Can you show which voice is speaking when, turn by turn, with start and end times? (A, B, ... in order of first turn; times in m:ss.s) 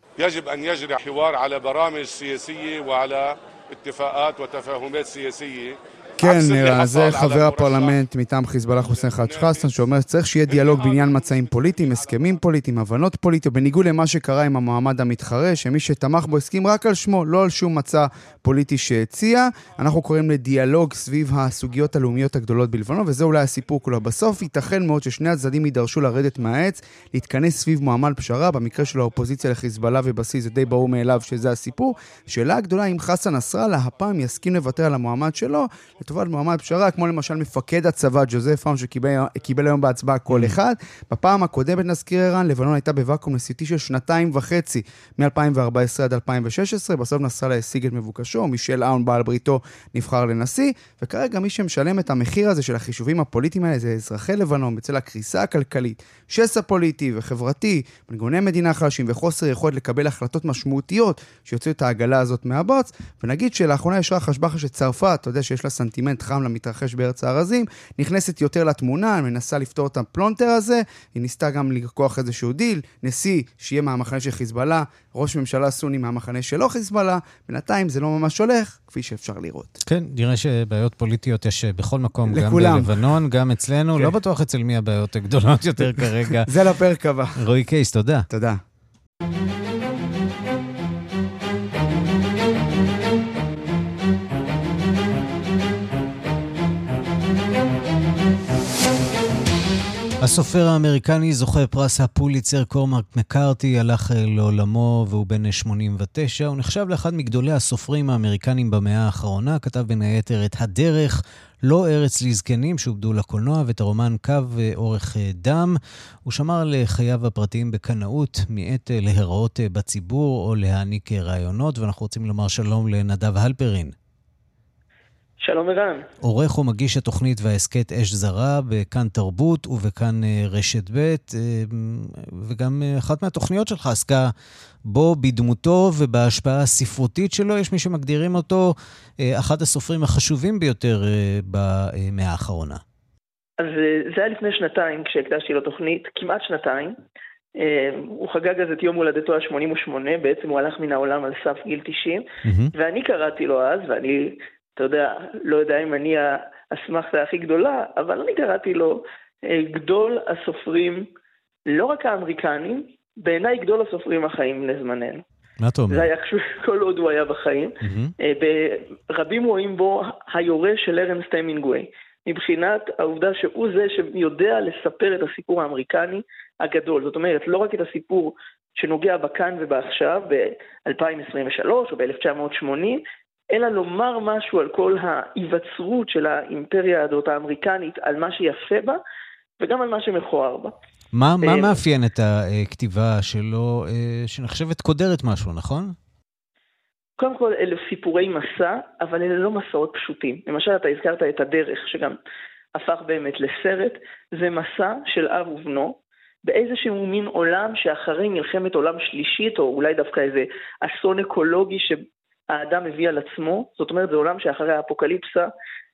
0:00.2-0:08.0 A
0:06.2-1:19.8 B
0:08.8-0:09.7 A
0:10.5-0:11.2 A
0:40.3-0:40.6 C
1:19.9-1:26.5 C
1:22.3-1:23.0 B
1:25.8-1:27.4 B
1:27.4-1:28.3 C
1:28.3-1:28.6 B
1:40.2-2:04.0 C
2:05.4-2:06.0 D
2:06.2-2:14.3 C
2:14.9-2:22.8 C
2:23.6-2:27.0 D
2:27.6-2:41.0 D
2:32.4-2:32.7 C
2:41.7-2:45.2 D
2:45.6-2:46.1 C
2:45.9-3:09.0 D
2:47.8-2:48.1 C
3:09.6-3:10.7 D
3:11.1-3:16.0 C
3:11.4-3:11.7 D
3:17.2-3:22.2 D
3:22.8-3:35.5 D